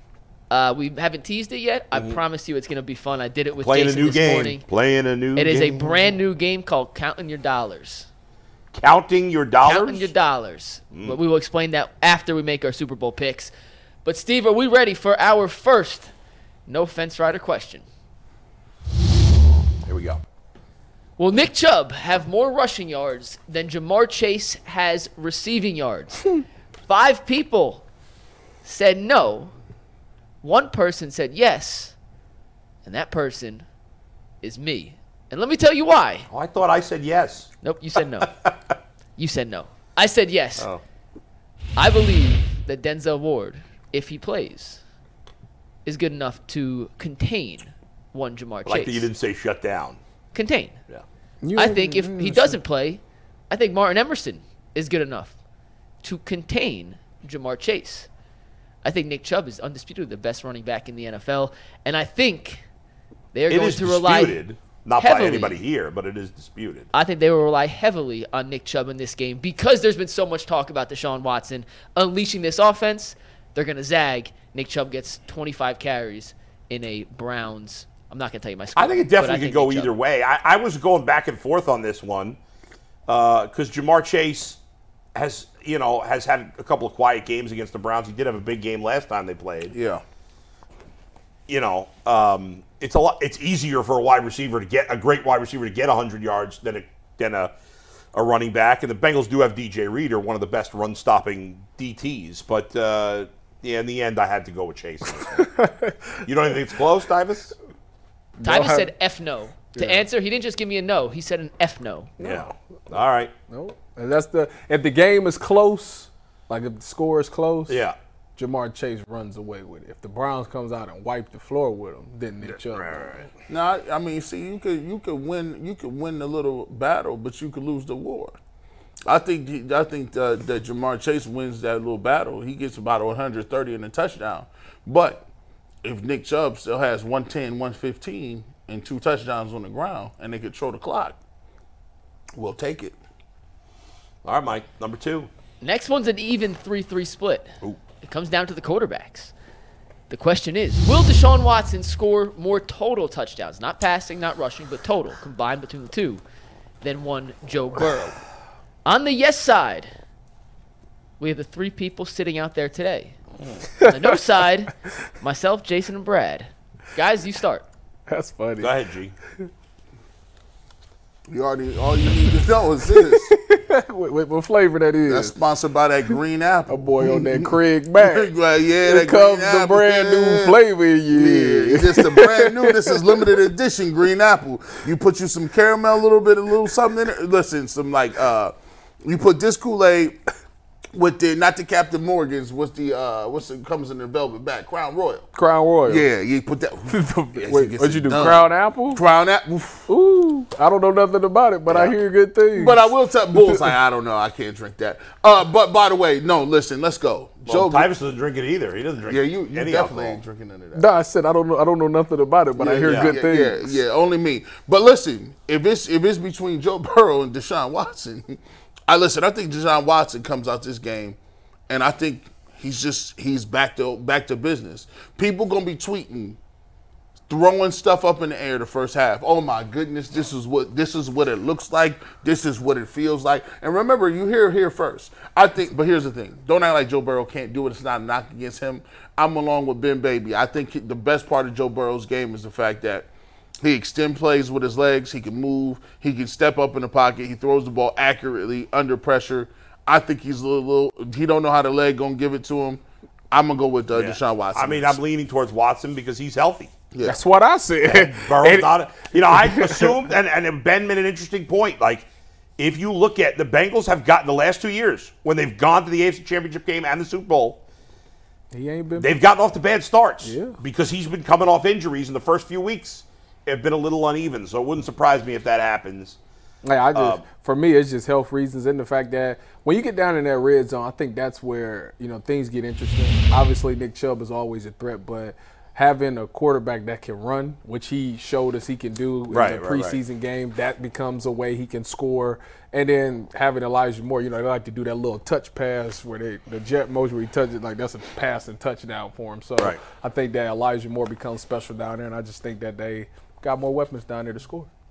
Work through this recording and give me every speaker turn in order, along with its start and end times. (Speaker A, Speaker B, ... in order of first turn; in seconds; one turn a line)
Speaker A: 0.5-4.6
Speaker B: 3.6-6.1
Speaker A: 5.3-8.1
Speaker B: 8.7-10.1
Speaker A: 9.6-13.5
Speaker A: 14.0-16.1
Speaker A: 16.7-17.8
Speaker B: 19.8-20.2
Speaker A: 21.2-26.3
Speaker A: 26.9-27.8
Speaker A: 28.6-29.5
Speaker A: 30.4-31.9
Speaker A: 32.8-33.6
Speaker A: 34.4-36.2
Speaker B: 36.3-37.5
Speaker A: 37.6-38.3
Speaker B: 38.3-38.5
Speaker A: 39.2-40.7
Speaker A: 41.8-44.8
Speaker A: 45.9-49.1
Speaker B: 48.7-50.0
Speaker A: 50.3-50.8
Speaker C: 51.4-52.6
Speaker A: 51.5-55.3
Speaker A: 56.0-58.1
Speaker A: 58.8-62.6
Speaker A: 63.3-64.4
Speaker B: 63.5-66.9
Speaker A: 65.0-65.6
Speaker A: 66.9-79.9
Speaker B: 78.8-82.4
Speaker B: 83.1-84.6
Speaker B: 85.1-89.7
Speaker D: 89.7-90.0
Speaker B: 91.5-97.5
Speaker B: 98.1-105.5
Speaker C: 105.3-106.2
Speaker B: 106.2-107.5
Speaker C: 108.4-108.9
Speaker A: 108.4-112.1
Speaker C: 109.8-110.0
Speaker C: 112.2-112.5
Speaker B: 112.2-113.3
Speaker C: 113.5-117.8
Speaker B: 117.7-118.0
Speaker C: 118.4-123.3
Speaker B: 122.5-123.2
Speaker D: 123.5-128.3
Speaker D: 129.0-135.2
Speaker D: 135.8-141.2
Speaker D: 142.3-142.9
Speaker B: 144.2-145.3
Speaker A: 145.6-147.5
Speaker A: 148.0-149.3
Speaker A: 150.1-156.2
Speaker A: 156.8-158.2
Speaker A: 158.8-159.9
Speaker A: 161.2-163.2
Speaker A: 163.8-167.7
Speaker C: 163.8-164.1
Speaker C: 168.1-168.7
Speaker B: 168.6-169.1
Speaker D: 171.3-173.3
Speaker C: 172.9-175.3
Speaker D: 175.1-180.6
Speaker C: 176.7-178.3
Speaker C: 178.8-183.2
Speaker D: 181.1-190.2
Speaker D: 190.9-195.3
Speaker C: 195.3-196.1
Speaker D: 195.9-199.9
Speaker C: 196.9-199.0
Speaker C: 199.9-203.7
Speaker D: 202.5-207.9
Speaker B: 207.5-210.2
Speaker D: 209.0-210.8
Speaker C: 210.8-213.8
Speaker D: 212.6-221.2
Speaker B: 212.8-213.1
Speaker D: 221.7-226.4
Speaker D: 227.3-243.1
Speaker D: 243.6-255.0
Speaker B: 253.9-256.7
Speaker D: 256.9-257.2
Speaker C: 257.0-259.9
Speaker B: 257.8-262.1
Speaker B: 262.6-267.6
Speaker C: 268.5-269.1
Speaker B: 269.0-276.1
Speaker C: 270.2-270.6
Speaker C: 276.6-304.7
Speaker B: 276.9-277.2
Speaker B: 289.3-290.0